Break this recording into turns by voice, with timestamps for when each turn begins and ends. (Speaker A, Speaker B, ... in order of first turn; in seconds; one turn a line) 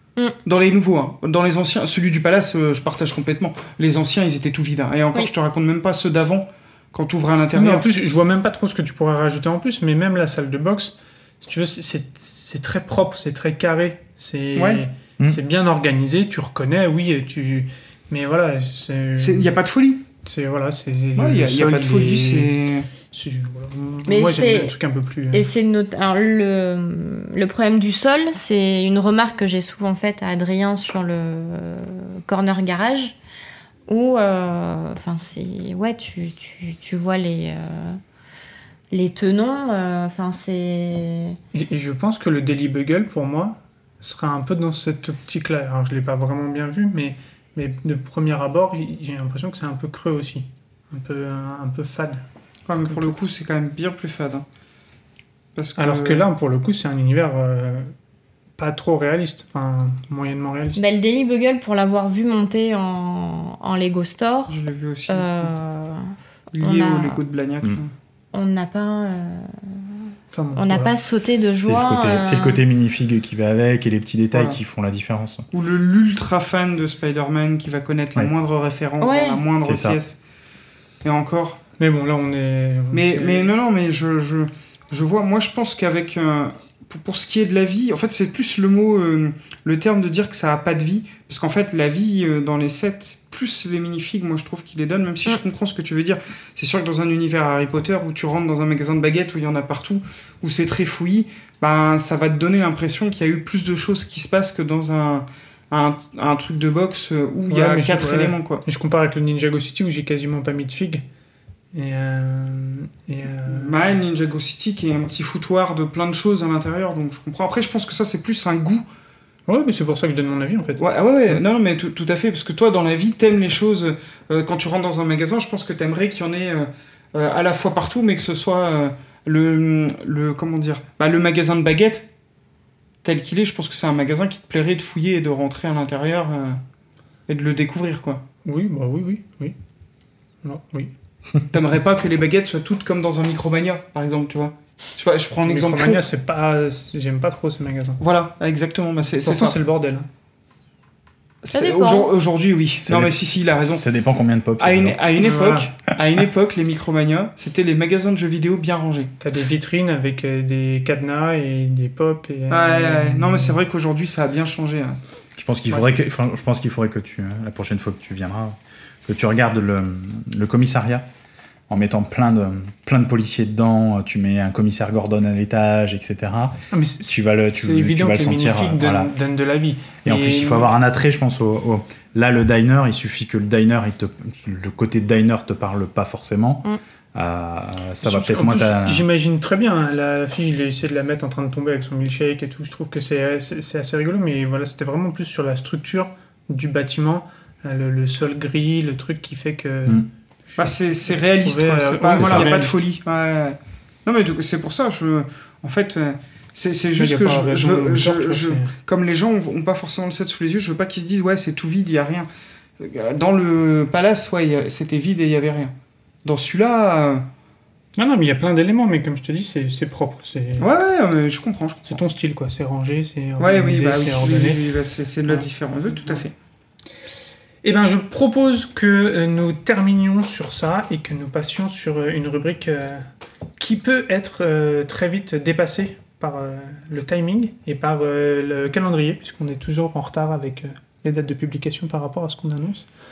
Speaker A: 0.4-7.8
Speaker B: 7.5-19.5
Speaker A: 14.6-14.8
Speaker A: 19.2-20.0
Speaker B: 20.2-22.6
Speaker A: 21.1-22.9
Speaker B: 23.1-25.5
Speaker C: 24.1-24.7
Speaker C: 25.3-33.1
Speaker C: 33.9-38.0
Speaker C: 38.9-41.4
Speaker B: 41.5-52.2
Speaker A: 52.7-54.4
Speaker B: 52.8-53.1
Speaker A: 55.5-56.2
Speaker B: 55.8-57.9
Speaker B: 58.6-60.8
Speaker C: 60.8-64.6
Speaker A: 64.5-65.5
Speaker C: 65.1-67.2
Speaker A: 66.5-67.9
Speaker C: 68.3-70.0
Speaker B: 70.3-70.9
Speaker C: 70.5-72.6
Speaker D: 71.4-75.5
Speaker A: 74.3-74.6
Speaker A: 75.5-80.2
Speaker C: 79.0-79.4
Speaker D: 79.6-80.0
Speaker A: 81.0-81.6
Speaker B: 81.8-83.5
Speaker A: 82.9-108.6
Speaker B: 107.5-111.0
Speaker B: 111.7-114.0
Speaker A: 113.5-118.8
Speaker B: 119.5-120.8
Speaker A: 120.8-132.1
Speaker A: 133.0-136.6
Speaker A: 137.3-138.2
Speaker B: 138.4-139.5
Speaker B: 140.4-140.9
Speaker A: 141.5-146.0
Speaker B: 145.4-148.0
Speaker A: 148.0-149.6
Speaker B: 149.2-150.1
Speaker A: 151.4-153.8
Speaker C: 151.5-152.1
Speaker D: 152.8-155.2
Speaker A: 154.6-159.1
Speaker B: 155.2-155.7
Speaker B: 159.2-163.6
Speaker A: 162.5-165.0
Speaker D: 165.4-171.0
Speaker B: 165.7-166.0
Speaker D: 171.7-179.1
Speaker B: 176.7-180.7
Speaker D: 180.0-189.1
Speaker B: 188.0-202.8
Speaker A: 200.6-212.3
Speaker D: 202.1-202.5
Speaker B: 206.9-208.7
Speaker A: 212.8-215.7
Speaker A: 216.2-217.2
Speaker B: 217.9-220.7
Speaker A: 220.6-222.0
Speaker B: 221.8-224.6
Speaker A: 223.4-226.3
Speaker B: 225.3-226.2
Speaker B: 227.6-233.0
Speaker B: 233.6-242.8